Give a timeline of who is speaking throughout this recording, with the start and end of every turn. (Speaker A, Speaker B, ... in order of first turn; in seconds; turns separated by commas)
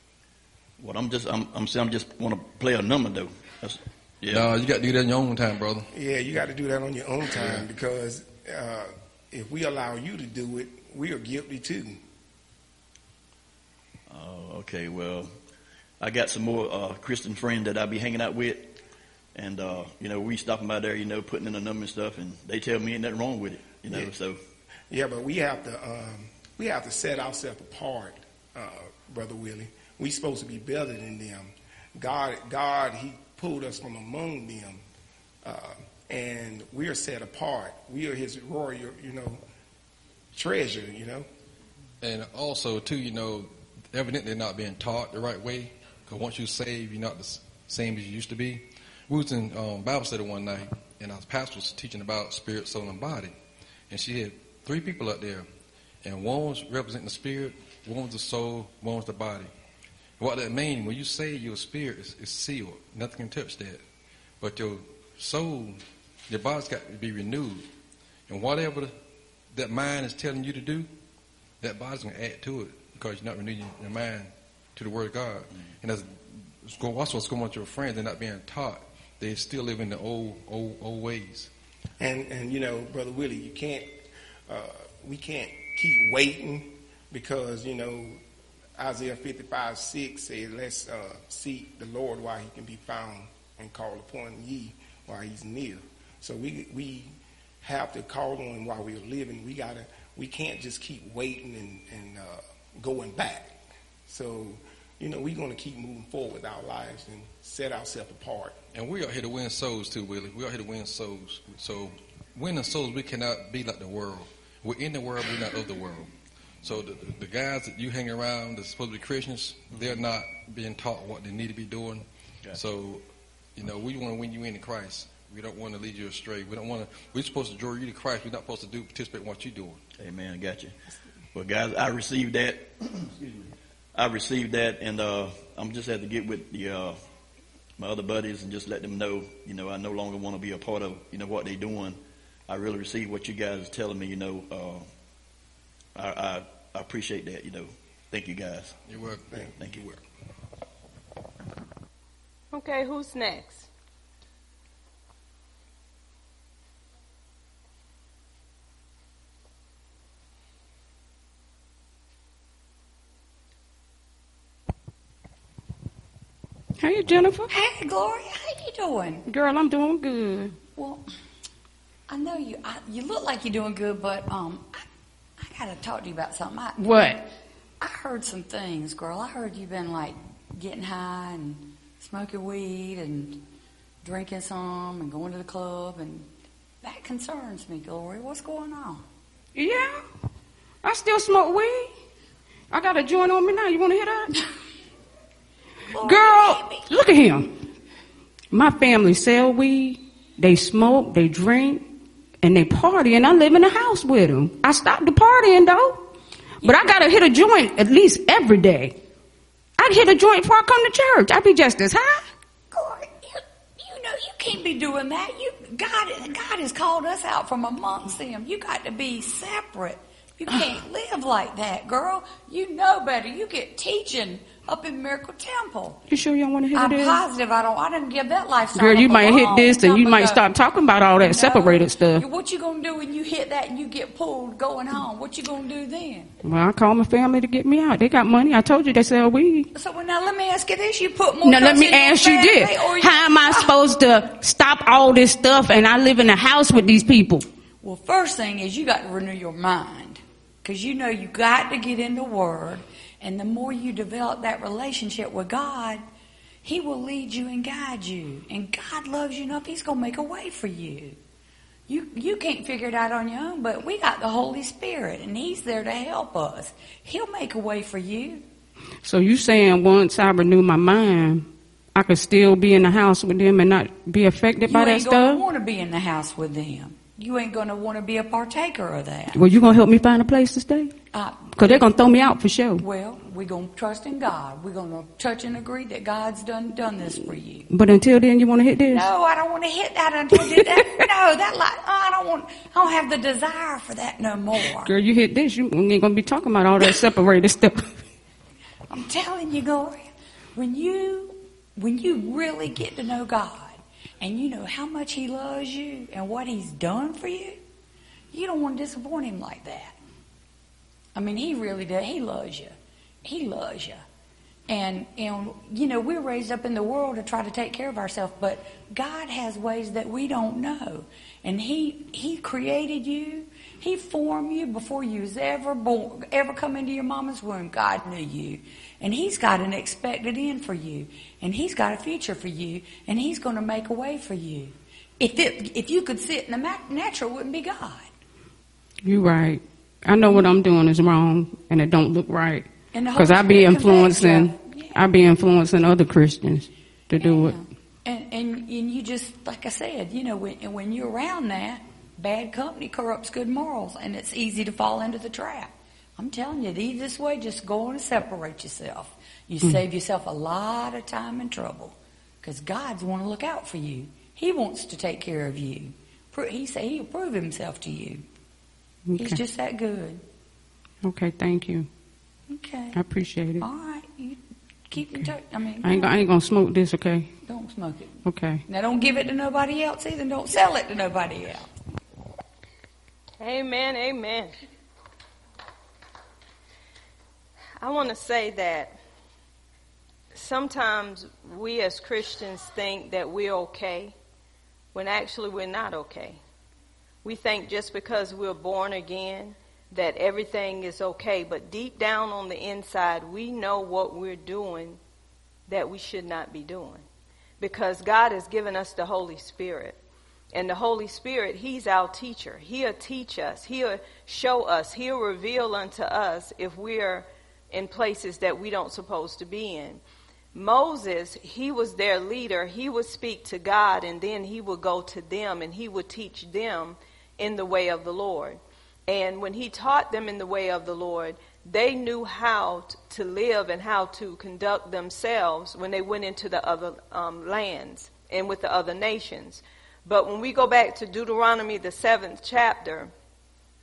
Speaker A: 0.8-4.5, Speaker B: 4.3-5.9, Speaker C: 5.9-12.0, Speaker A: 14.1-15.3, Speaker A: 16.0-18.8, Speaker A: 19.3-24.4, Speaker C: 24.9-34.8, Speaker C: 35.4-39.4, Speaker C: 40.3-41.2, Speaker B: 42.0-53.3, Speaker B: 53.9-55.5, Speaker B: 56.0-59.5, Speaker B: 60.2-63.8, Speaker B: 64.4-67.7, Speaker B: 68.3-68.9, Speaker B: 69.5-70.9, Speaker B: 71.6-81.5, Speaker C: 82.0-88.2, Speaker C: 88.8-103.5, Speaker C: 104.1-108.5, Speaker B: 108.7-116.1, Speaker B: 116.6-123.0, Speaker A: 119.7-120.0, Speaker B: 123.5-129.8, Speaker A: 130.0-130.8, Speaker A: 131.3-137.0, Speaker A: 137.8-144.9, Speaker A: 145.9-148.8, Speaker B: 148.9-150.0, Speaker D: 152.5-153.7, Speaker E: 166.8-167.5, Speaker F: 167.5-169.3, Speaker E: 169.3-170.6, Speaker F: 170.7-171.0, Speaker F: 172.1-174.8, Speaker F: 175.4-176.9, Speaker E: 176.8-177.2, Speaker F: 177.8-183.4, Speaker F: 184.0-186.3, Speaker F: 186.8-189.0, Speaker E: 189.5-190.0, Speaker E: 190.8-191.9, Speaker E: 192.7-194.5, Speaker F: 195.9-196.9, Speaker E: 195.9-197.6, Speaker E: 198.5-201.8, Speaker E: 202.4-206.0, Speaker F: 206.6-206.9, Speaker E: 206.6-208.9, Speaker E: 209.8-212.2, Speaker F: 212.7-226.0, Speaker E: 226.1-227.2, Speaker F: 226.7-230.4, Speaker E: 228.7-232.2, Speaker F: 231.2-236.3, Speaker E: 236.4-239.7, Speaker F: 239.7-243.8, Speaker E: 241.4-247.4, Speaker F: 247.8-256.0, Speaker F: 256.6-261.2, Speaker F: 261.9-268.5, Speaker E: 269.0-275.4, Speaker F: 274.7-279.4, Speaker E: 279.3-280.9, Speaker F: 281.1-281.7, Speaker E: 281.6-282.8, Speaker F: 282.8-287.7, Speaker E: 287.7-289.1, Speaker F: 288.9-294.9, Speaker E: 290.4-290.8, Speaker E: 294.8-298.0, Speaker F: 298.9-307.6, Speaker F: 308.3-310.0, Speaker F: 311.1-314.0, Speaker F: 314.7-338.1, Speaker E: 339.0-347.6, Speaker F: 340.2-340.5, Speaker F: 342.9-345.0, Speaker F: 347.1-368.2, Speaker E: 369.1-369.4, Speaker F: 369.2-370.2, Speaker E: 371.0-371.9, Speaker F: 372.5-373.0, Speaker E: 372.9-373.6, Speaker F: 373.6-376.2, Speaker E: 375.8-377.3, Speaker F: 377.4-381.7, Speaker E: 378.2-378.6, Speaker D: 383.4-384.5, Speaker D: 387.8-388.9, Speaker D: 390.3-394.1, Speaker D: 394.9-396.4, Speaker D: 397.2-405.0, Speaker D: 405.7-407.0, Speaker D: 407.6-410.0, Speaker D: 410.5-420.0, Speaker D: 420.5-443.1